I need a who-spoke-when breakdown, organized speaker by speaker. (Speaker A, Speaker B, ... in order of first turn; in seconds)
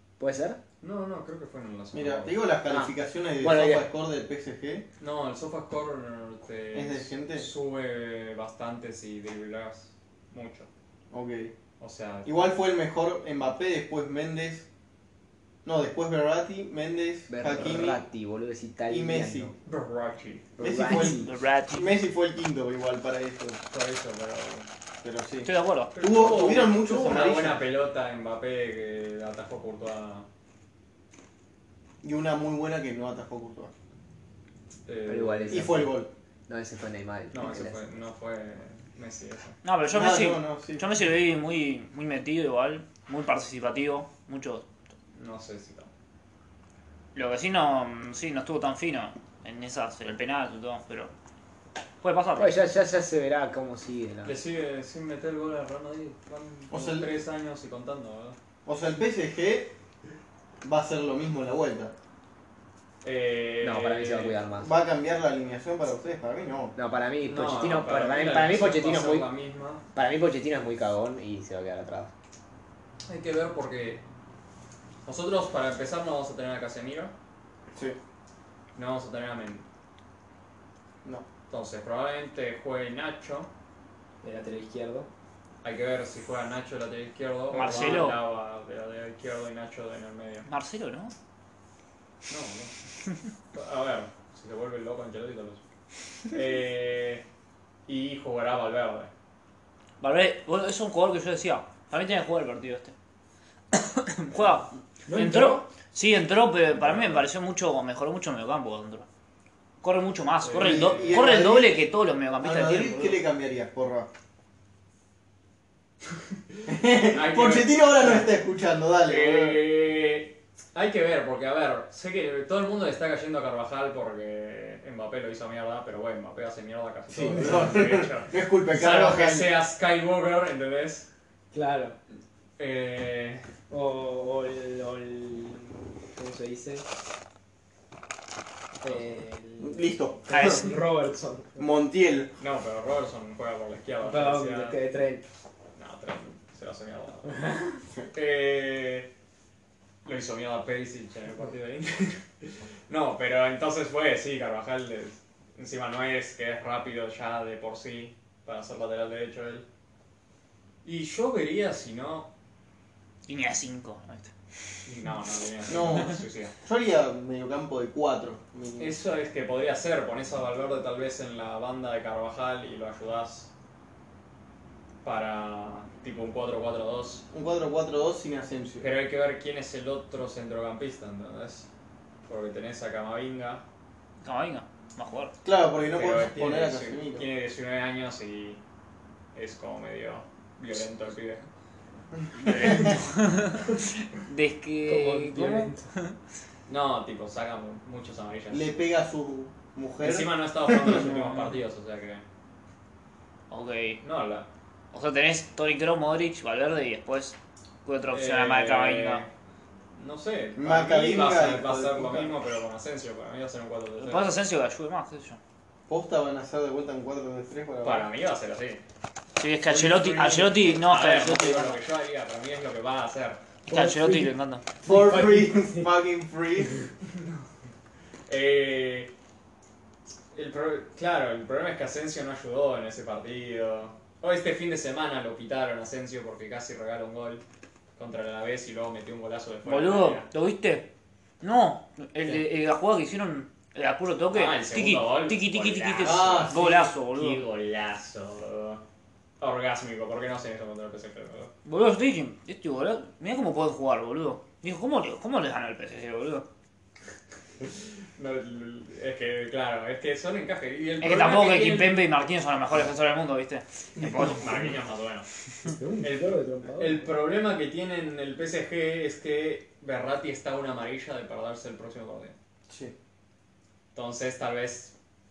Speaker A: 0.2-0.6, 2.7-3.9, 17.3-19.5, 20.6-21.3, 35.0-37.8, 52.4-54.3, 63.6-64.7, 66.8-69.3, 69.9-72.1, 84.2-85.1, 105.1-105.7, 131.5-132.0, 133.7-136.9, 138.8-141.6, 144.0-145.2, 147.4-147.7, 194.8-195.9, 223.7-225.9, 265.7-267.1
Speaker B: 0.8-2.4, 5.0-10.7, 11.8-12.4, 19.6-20.5, 23.7-24.7, 25.9-30.3, 34.9-35.8, 37.3-39.6, 45.1-45.9, 54.2-58.4, 63.0-64.4, 67.3-69.8, 73.0-74.0, 75.0-77.1, 78.7-79.6, 81.5-83.5, 85.6-90.5, 92.3-92.7, 93.5-95.6, 96.3-97.2, 97.9-99.1, 106.7-107.2, 110.4-111.2, 117.0-118.3, 119.0-131.1, 132.6-133.5, 142.4-144.8, 145.8-147.5, 148.1-149.1, 150.0-159.6, 160.8-162.3, 164.8-166.5, 168.8-173.5, 175.0-177.2, 178.8-181.7, 182.2-183.6, 185.9-188.6, 189.3-191.5, 192.4-193.0, 196.7-198.7, 200.0-202.2, 204.0-204.5, 208.1-209.3, 209.9-214.3, 217.8-218.8, 219.7-223.4, 228.3-229.1, 230.3-237.4, 238.0-240.3, 244.3-248.8, 249.4-251.5, 258.2-262.0, 264.0-265.2, 266.0-272.3, 273.9-274.9
Speaker C: 1.9-4.8, 6.7-7.5, 11.1-11.5, 12.2-14.7, 15.6-18.0, 18.9-19.5, 20.6-23.6, 25.0-27.6, 32.0-33.7, 35.5-36.1, 39.9-40.8, 56.7-57.1, 58.6-59.7, 60.6-61.9, 64.6-66.7, 110.6-111.9, 112.4-114.1, 116.7-119.7, 127.1-129.5, 139.6-140.6, 141.6-142.3, 165.7-168.9, 177.3-178.9, 185.4-187.3, 198.5-201.1, 210.6-212.3, 215.9-218.1, 224.8-226.8, 246.0-246.9, 264.0-264.3, 272.7-272.9
Speaker D: 20.9-21.9, 25.4-26.0, 39.6-44.7, 47.1-51.1, 52.0-52.5, 87.5-88.2, 90.5-91.1, 100.0-102.9, 103.7-109.0, 109.8-113.2, 140.3-140.8, 163.2-164.3, 184.2-185.3, 192.3-196.1, 201.0-201.5, 203.5-204.0, 204.9-209.2, 214.0-215.4, 219.4-221.8, 223.7-224.6, 239.6-240.9, 241.4-247.4, 251.6-256.5, 261.0-264.7